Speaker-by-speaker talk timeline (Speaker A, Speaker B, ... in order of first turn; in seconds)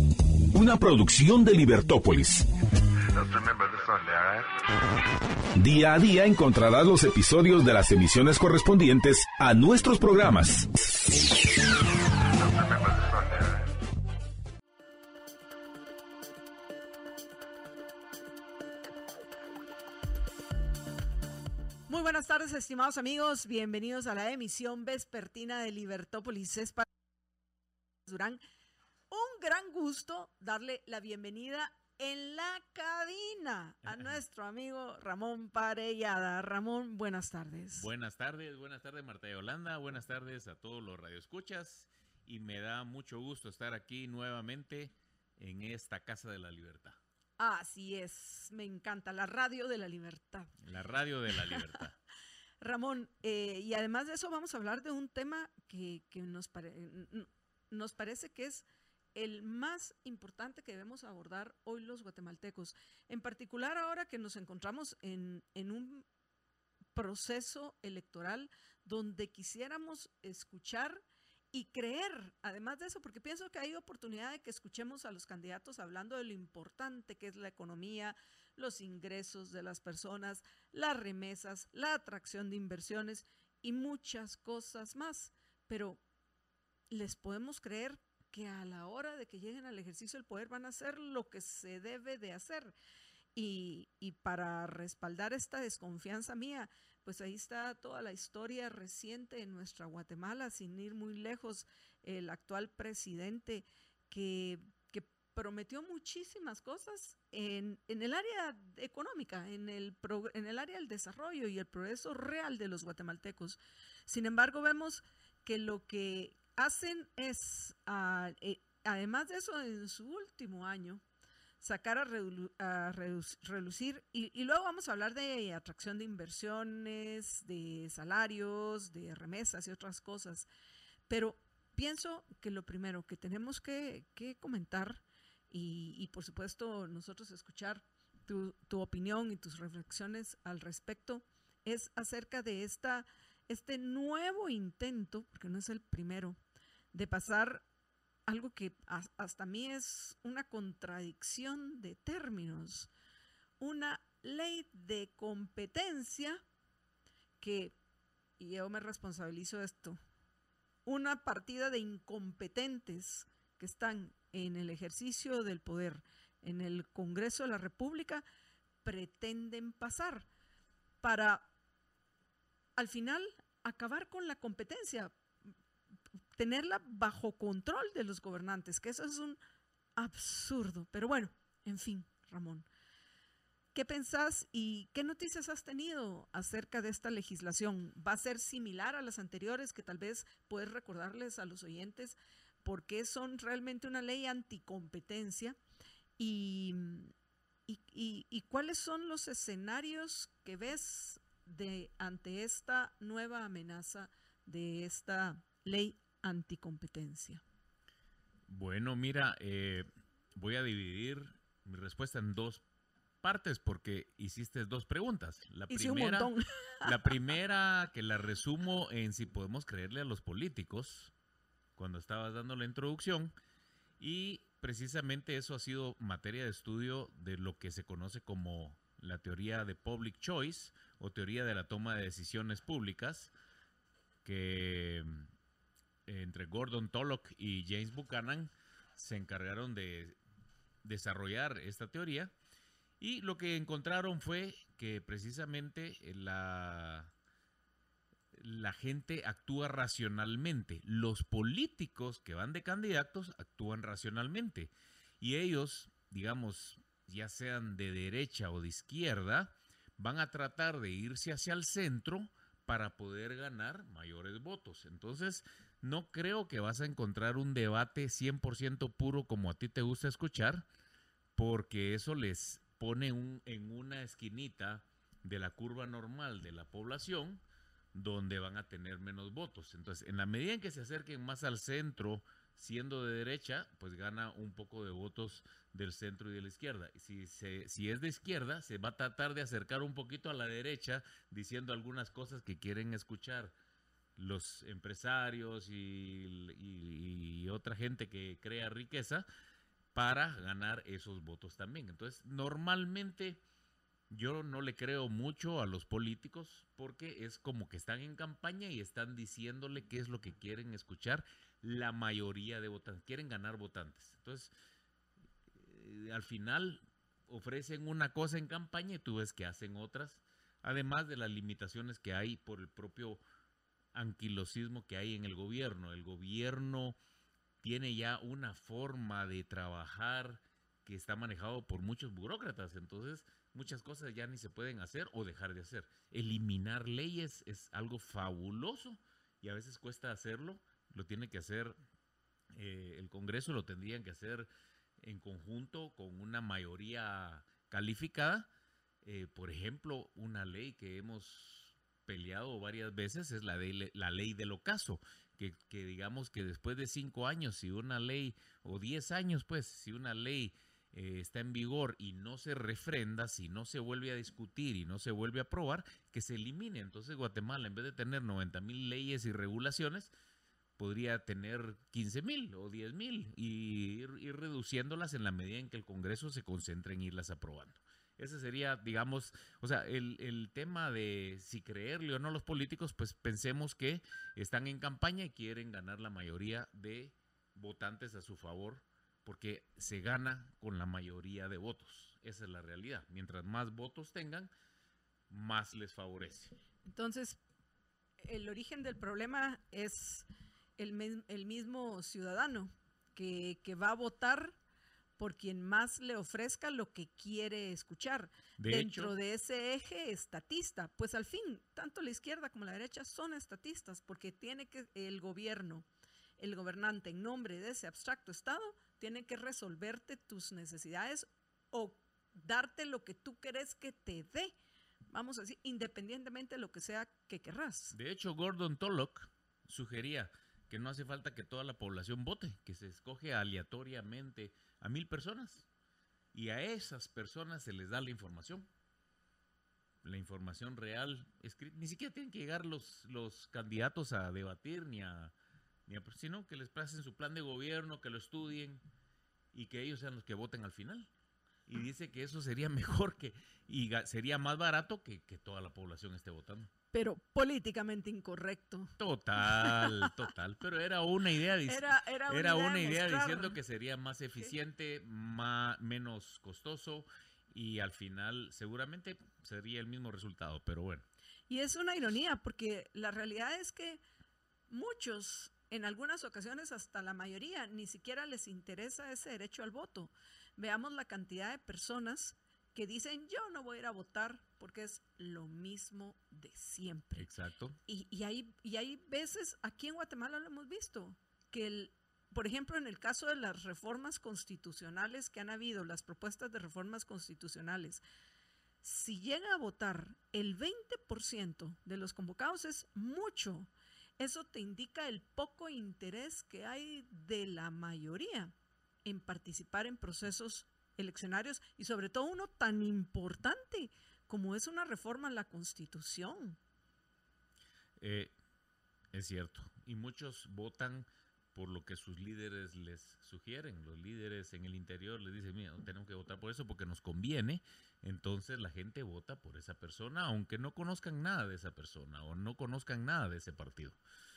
Speaker A: 0.5-2.5, 3.2-4.5, 5.6-10.7, 12.5-13.4
Speaker B: 21.9-26.9, 28.1-28.4, 29.1-37.9, 47.4-50.5, 51.4-51.8, 52.6-66.0, 67.0-86.0, 86.9-92.8, 93.3-121.0, 121.6-130.5, 131.1-146.4, 146.9-147.7, 148.3-152.9, 153.6-156.4, 157.4-157.8, 158.4-160.0, 160.9-168.2, 168.8-170.3, 171.0-171.5, 172.8-175.1, 176.4-179.4, 180.0-182.7, 183.7-195.6, 196.2-197.1, 197.7-207.4, 215.7-217.2, 396.9-397.4, 398.2-400.3, 400.8-404.6, 405.2-415.9, 416.4-424.5, 425.1-427.9, 456.9-460.2, 461.6-463.6, 471.5-474.0, 474.7-487.3, 487.9-498.0, 498.8-516.6
Speaker C: 33.8-34.2, 37.8-47.0, 50.6-52.0, 208.5-212.6, 213.2-216.3, 216.8-221.1, 221.8-223.3, 224.0-233.3, 234.2-235.3, 236.1-240.2, 240.8-242.3, 243.0-247.1, 248.3-270.7, 271.4-277.4, 277.9-293.6, 294.2-299.3, 299.9-303.4, 304.1-314.5, 315.6-323.2, 323.9-327.0, 327.6-341.8, 342.5-344.5, 345.0-348.5, 349.0-370.1, 370.8-394.5, 395.3-396.5, 408.6-409.1, 427.9-435.7, 436.3-438.7, 440.0-445.3, 445.9-448.8, 449.5-451.1, 451.7-456.7, 459.0-471.1, 487.2-487.8, 518.0-518.3, 519.1-534.0